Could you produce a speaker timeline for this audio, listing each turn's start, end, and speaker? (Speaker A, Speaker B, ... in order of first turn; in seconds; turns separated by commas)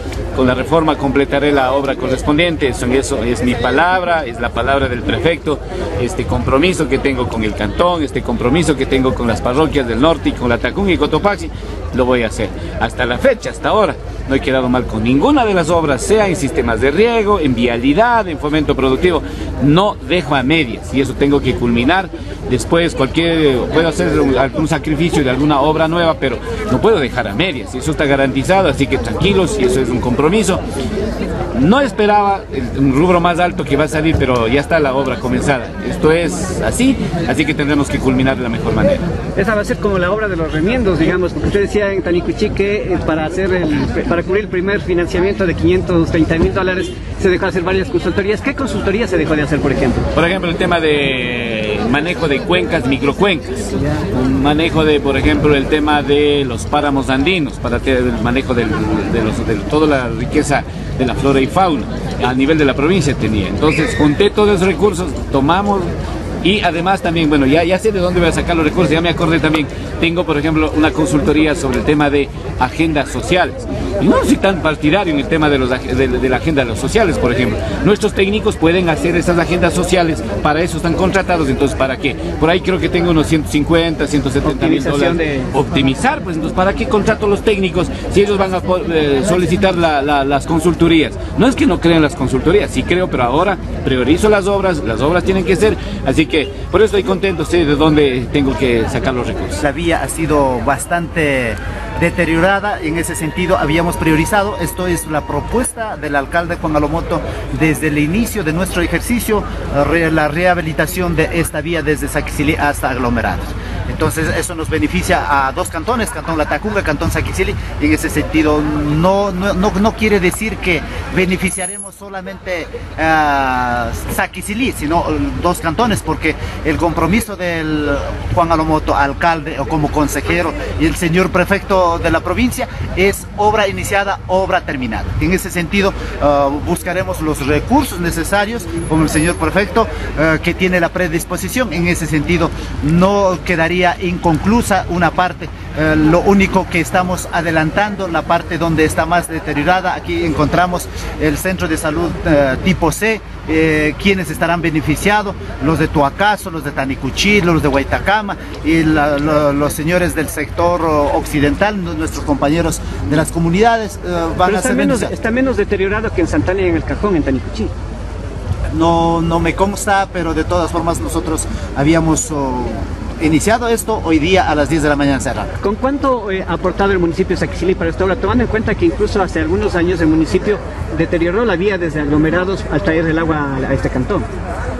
Speaker A: 0.3-30.6, Speaker A: 31.5-39.1, Speaker B: 39.3-50.1, Speaker A: 50.1-53.5, Speaker B: 53.7-54.0, Speaker A: 54.1-99.6, Speaker B: 84.4-85.5, Speaker C: 99.6-165.1, Speaker B: 164.4-167.7, Speaker C: 168.7-175.5, Speaker B: 175.6-184.3